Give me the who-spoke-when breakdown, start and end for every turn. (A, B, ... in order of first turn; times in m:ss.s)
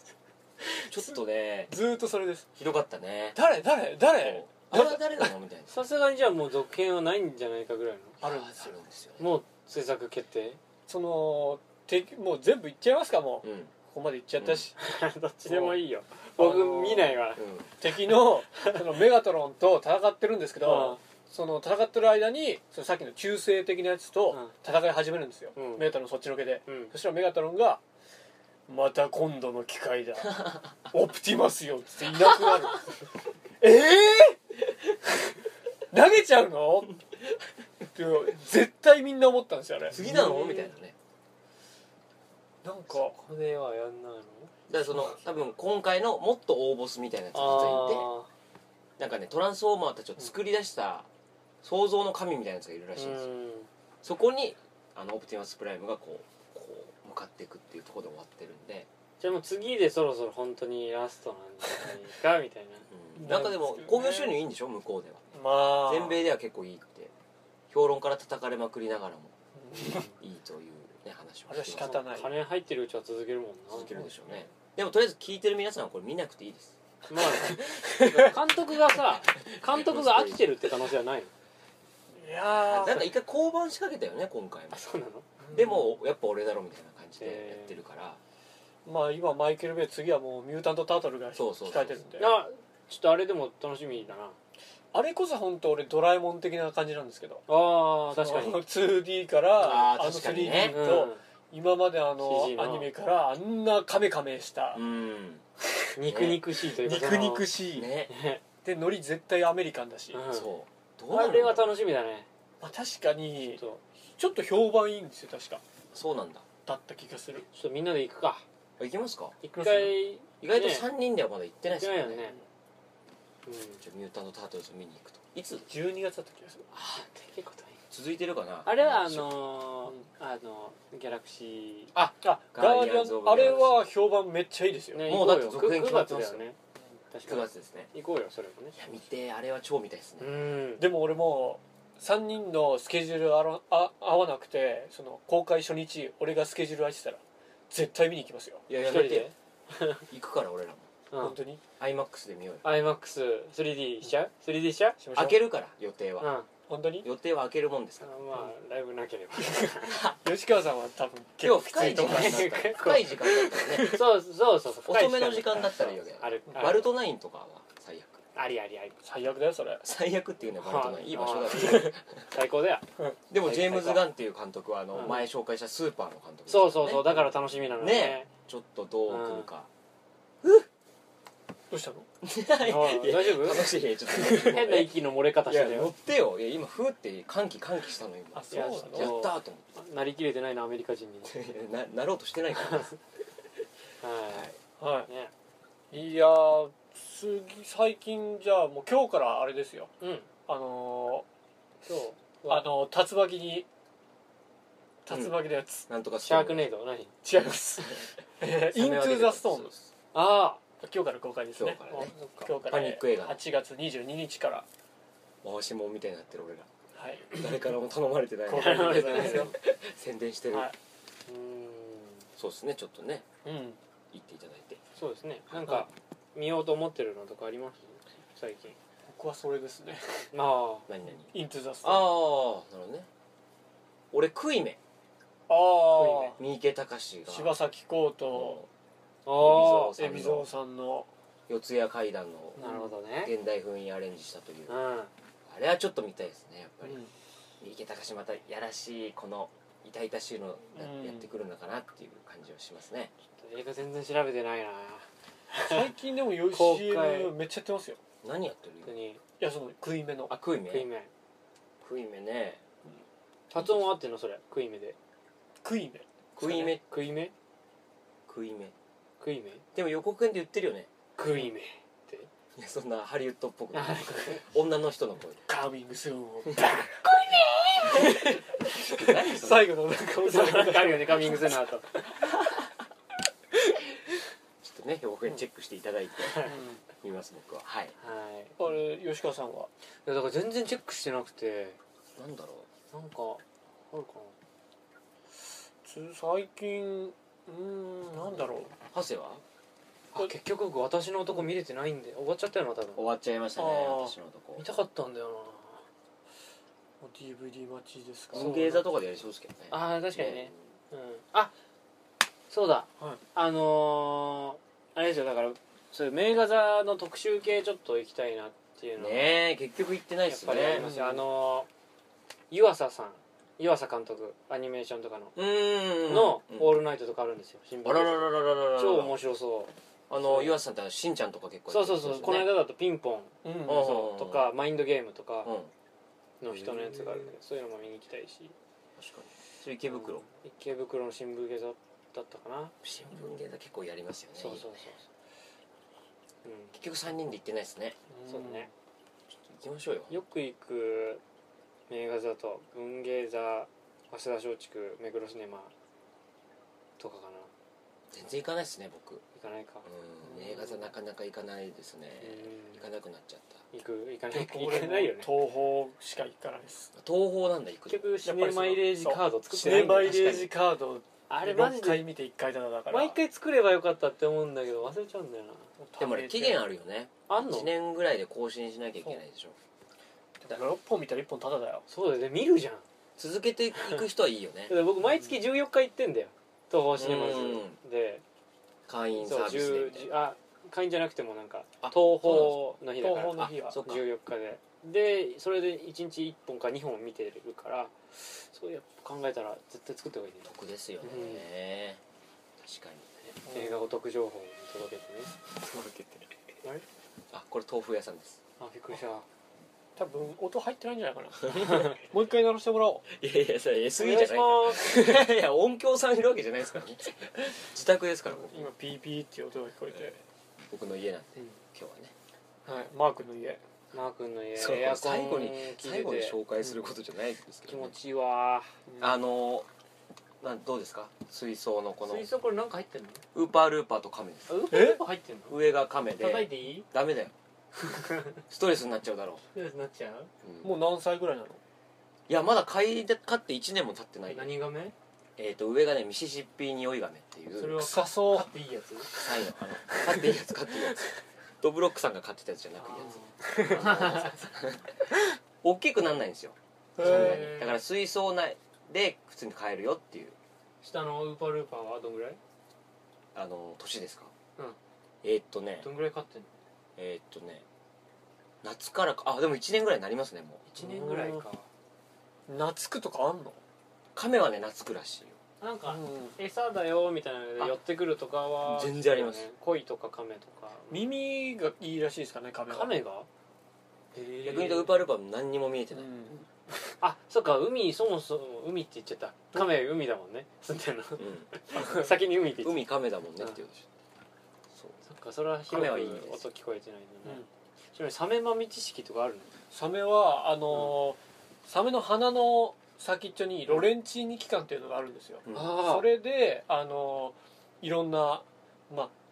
0:00.6-0:02.5 A
0:00.9-0:01.7 B
0:02.6-0:03.4 B
0:03.3-0:05.3 A
0:04.1-0:05.7 B
0:05.7-0:08.2 C
0:08.2-0:08.8 A
0:08.2-0:09.3 B
0:09.2-0:10.6 C
0:10.9-0:14.7 A
0:13.4-0:13.7 B
0:14.4-0:14.6 B
0:14.8-0:17.4 C
0:15.5-0:15.8 A
0:16.4-0:17.2 A
0:17.4-0:17.7 B
0:17.8-0:27.8 A
0:20.6-0:21.0 C
0:25.6-0:25.9 C
0:26.7-0:26.9 C
0:28.7-0:33.0 A
0:33.6-0:34.9 A
0:35.9-0:37.0 A
0:37.9-0:40.6 A
0:39.9-0:40.9 B
0:40.0-0:40.7 C
0:42.6-0:43.2 A
0:42.9-0:44.5 C
0:44.7-0:48.1 B
0:47.3-0:48.3 C
0:49.0-0:51.1 B
0:51.6-0:53.3 B
0:53.0-0:53.7 C
0:54.0-0:58.9 B
0:59.2-1:02.9 C
1:02.9-1:05.2 B
1:03.2-1:04.4 A
1:05.3-1:06.2 A
1:05.8-1:07.1 B
1:07.7-1:09.3 B
1:09.6-1:10.0 A
1:10.0-1:12.0 B
1:11.5-1:12.3 A
1:11.8-1:14.0 C
1:13.7-1:16.8 B
1:17.1-1:21.3 C
1:17.4-1:18.3 A
1:19.5-1:20.4 B
1:22.1-1:23.1 A
1:22.6-1:24.8 B
1:24.7-1:25.4 C
1:25.4-1:25.8 A
1:25.5-1:28.2 B
1:27.2-1:27.8 C
1:28.8-1:32.3 A
1:31.4-1:32.0 B
1:32.2-1:34.4 C
1:34.9-1:37.4 A
1:37.5-1:38.6 C
1:38.1-1:44.8 A
1:39.6-1:40.8 B
1:40.7-1:41.2 C
1:42.2-1:42.9 C
1:44.7-1:45.4 B
1:46.0-1:47.5 C
1:46.1-1:46.4 B
1:46.7-1:47.9 A
1:47.7-1:48.1 B
1:48.1-1:48.4 C
1:48.6-1:50.2 A
1:50.1-1:50.5 C
1:50.3-1:51.7 B
1:51.1-1:52.3 C
1:52.6-1:53.6 A
1:54.2-1:55.6 A
1:55.9-1:56.4 B
1:56.6-1:57.4 A
1:57.5-1:58.4 C
1:58.8-1:59.4 B
1:59.4-2:00.9 C
1:59.6-2:00.0 A
2:00.4-2:02.4 B
2:01.7-2:02.4 C
2:03.4-2:03.8 C
2:03.8-2:05.7 B
2:05.7-2:06.7 A
2:06.7-2:07.8 C
2:07.9-2:09.3 B
2:08.6-2:11.9 C
2:11.9-2:13.8 B
2:12.2-2:15.0 A
2:13.4-2:13.7 C
2:14.9-2:16.6 C
2:15.0-2:16.4 B
2:17.1-2:18.8 C
2:17.2-2:17.9 B
2:18.7-2:20.3 B
2:20.2-2:20.9 C
2:20.8-2:28.6 A
2:28.7-2:29.3 B
2:28.7-2:30.0 C
2:30.1-2:30.9 B
2:31.1-2:31.4 C
2:31.2-2:31.6 A
2:31.8-2:32.6 B
2:32.6-2:35.0 C
2:35.0-2:35.4 A
2:35.1-2:36.3 B
2:36.2-2:36.5 C
2:36.7-2:37.1 A
2:37.0-2:38.1 B
2:38.0-2:40.0 C
2:39.4-2:42.5 A
2:41.4-2:44.0 B
2:41.8-2:46.9 C
2:44.8-2:48.2 B
2:46.5-2:46.7 A
2:48.3-2:49.0 C
2:49.0-2:49.8 A
2:49.8-2:52.3 B
2:50.6-2:52.9 C
2:53.3-2:59.7 B
2:53.4-2:54.1 C
2:54.9-2:55.2 C
2:56.5-2:58.3 C
2:59.1-2:59.5 C
3:00.4-3:00.7 B
3:01.7-3:02.1 A
3:02.2-3:09.7 B
3:02.6-3:05.9 C
3:08.3-3:09.1 A
3:08.5-3:11.3 C
3:11.2-3:12.9 B
3:14.0-3:14.5 C
3:14.8-3:15.1 A
3:15.9-3:19.9 A
3:20.0-3:20.3 C
3:20.5-3:21.2 A
3:21.8-3:22.6 C
3:22.5-3:23.7 A
3:25.0-3:25.8 A
3:25.9-3:26.7 B
3:26.2-3:27.1 C
3:27.2-3:29.7 A
3:28.6-3:29.9 B
3:30.1-3:30.6 C
3:30.8-3:31.8 A
3:31.5-3:33.4 B
3:31.9-3:32.5 C
3:32.4-3:34.6 A
3:35.4-3:36.7 B
3:36.9-3:37.3 A
3:37.3-3:40.7 B
3:38.5-3:39.5 A
3:38.5-3:39.5 C
3:41.3-3:42.3 C
3:42.4-3:43.2 B
3:43.4-3:43.8 A
3:44.1-3:44.8 B
3:45.0-3:48.8 C
3:49.1-3:50.3 A
3:50.3-3:50.9 C
3:50.9-3:51.3 B
3:51.3-3:52.1 A
3:51.8-3:53.1 B
3:54.1-3:54.8 B
3:55.5-3:56.4 A
3:56.0-3:57.6 B
3:57.3-3:58.6 A
3:58.3-3:58.7 B
3:59.2-4:00.0 C
3:59.4-4:00.5 B
4:00.0-4:01.1 A
4:01.5-4:02.6 B
4:02.6-4:02.9 A
4:02.6-4:03.3 C
4:03.2-4:04.8 B
4:04.7-4:05.1 C
4:05.5-4:07.0 B
4:06.8-4:07.1 A
4:07.6-4:13.1 B
4:10.7-4:11.3 A
4:13.4-4:17.3 C
4:15.6-4:18.0 A
4:18.2-4:18.9 B
4:18.8-4:19.2 C
4:19.4-4:20.3 A
4:20.3-4:20.9 B
4:20.7-4:21.1 C
4:21.8-4:22.6 B
4:23.5-4:25.0 C
4:23.5-4:23.9 B
4:25.6-4:26.1 A
4:26.4-4:26.8 B
4:26.4-4:27.3 C
4:28.3-4:28.7 B
4:29.2-4:29.6 C
4:29.7-4:30.9 B
4:31.2-4:32.3 C
4:32.6-4:35.4 B
4:33.7-4:34.5 C
4:35.5-4:42.2 A
4:36.5-4:37.1 B
4:37.9-4:39.8 B
4:40.2-4:41.9 C
4:44.6-4:47.9 B
4:46.3-4:46.6 C
4:46.4-4:46.8 A
4:48.0-4:48.6 C
4:48.6-4:49.7 A
4:50.0-4:51.8 C
4:52.2-4:52.7 B
4:52.9-4:54.3 C
4:55.8-4:58.7 A
4:58.9-4:59.4 B
5:00.1-5:03.1 C
5:02.9-5:04.7 B
5:03.6-5:04.1 A
5:04.6-5:05.8 C
5:07.0-5:08.6 A
5:08.3-5:10.6 B
5:08.4-5:08.8 C
5:09.7-5:11.5 C
5:12.5-5:19.4 C
5:19.0-5:20.9 B
5:20.3-5:21.7 C
5:20.7-5:21.2 A
5:22.5-5:25.4 C
5:25.4-5:26.8 B
5:26.0-5:29.7 C
5:27.8-5:29.2 B
5:30.1-5:32.5 B
5:30.2-5:30.5 C
5:31.7-5:35.5 C
5:33.4-5:33.9 A
5:33.6-5:34.5 B
5:35.4-5:35.7 B
5:36.4-5:38.5 C
5:36.5-5:37.3 B
5:39.0-5:40.2 B
5:39.8-5:42.7 C
5:42.8-5:44.7 B
5:44.4-5:45.0 C
5:46.4-5:46.7 C
5:46.7-5:48.0 B
5:48.1-5:48.7 A
5:48.3-5:48.7 C
5:49.5-5:50.2 B
5:50.1-5:51.2 C
5:51.9-5:55.7 C
5:57.0-5:57.5 C
5:58.1-5:59.2 B
5:59.3-6:00.9 C
5:59.8-6:03.6 B
6:02.2-6:02.8 C
6:03.7-6:05.3 C
6:04.3-6:06.9 A
6:06.9-6:08.2 B
6:07.9-6:10.5 C
6:08.2-6:13.2 A
6:11.3-6:12.0 C
6:12.9-6:15.7 C
6:15.8-6:16.6 A
6:16.0-6:19.6 B
6:17.3-6:17.7 C
6:20.4-6:21.8 A
6:21.9-6:22.8 C
6:23.2-6:24.7 B
6:24.7-6:28.2 C
6:25.0-6:25.3 A
6:27.0-6:27.8 B
6:28.9-6:30.1 B
6:29.2-6:40.5 C
6:31.8-6:32.7 B
6:33.0-6:33.8 A
6:33.3-6:34.0 B
6:40.4-6:42.0 B
6:41.0-6:41.4 C
6:42.6-6:43.1 B
6:43.4-6:45.4 C
6:43.4-6:43.8 A
6:45.5-6:46.3 B
6:47.3-6:48.4 B
6:48.6-6:49.2 C
6:50.0-6:53.0 A
6:53.1-6:58.7 B
6:54.0-6:55.3 C
6:58.3-7:00.2 A
7:00.7-7:02.1 B
7:02.6-7:03.6 A
7:03.9-7:06.4 C
7:04.6-7:08.0 B
7:07.7-7:08.7 C
7:08.9-7:09.2 A
7:09.0-7:09.7 B
7:10.4-7:12.3 B
7:12.0-7:13.2 C
7:13.3-7:14.6 B
7:14.5-7:15.6 C
7:14.7-7:15.0 A
7:15.5-7:17.3 B
7:16.2-7:16.9 C
7:17.8-7:18.4 C
7:18.5-7:19.4 B
7:19.5-7:20.3 C
7:20.4-7:20.7 B
7:20.6-7:21.6 A
7:22.3-7:24.5 B
7:24.3-7:24.9 C
7:25.4-7:27.9 B
7:27.6-7:29.2 C
7:27.8-7:28.5 A
7:29.2-7:31.0 B
7:30.0-7:30.4 C
7:31.6-7:35.0 B
7:32.8-7:34.4 C
7:35.6-7:40.4 B
7:37.0-7:37.4 A
7:37.0-7:37.8 C
7:40.8-7:42.4 C
7:43.3-7:44.3 B
7:45.2-7:45.9 B
7:45.8-7:46.5 C
7:47.0-7:47.6 B
7:48.6-7:50.6 B
7:50.7-7:51.7 C
7:50.8-7:51.4 A
7:52.5-7:53.6 A
7:54.1-7:55.4 B
7:55.6-8:01.1 C
7:55.9-7:56.4 A
7:58.6-7:59.4 B
8:00.9-8:02.9 A
8:02.7-8:03.3 C
8:04.1-8:04.9 C
8:04.4-8:06.1 B
8:05.9-8:06.5 A
8:07.0-8:12.8 C
8:11.2-8:11.9 B
8:12.6-8:13.8 B
8:15.0-8:19.5 C
8:15.7-8:16.4 B
8:19.7-8:29.1 A
8:25.4-8:25.8 B
8:25.5-8:26.1 C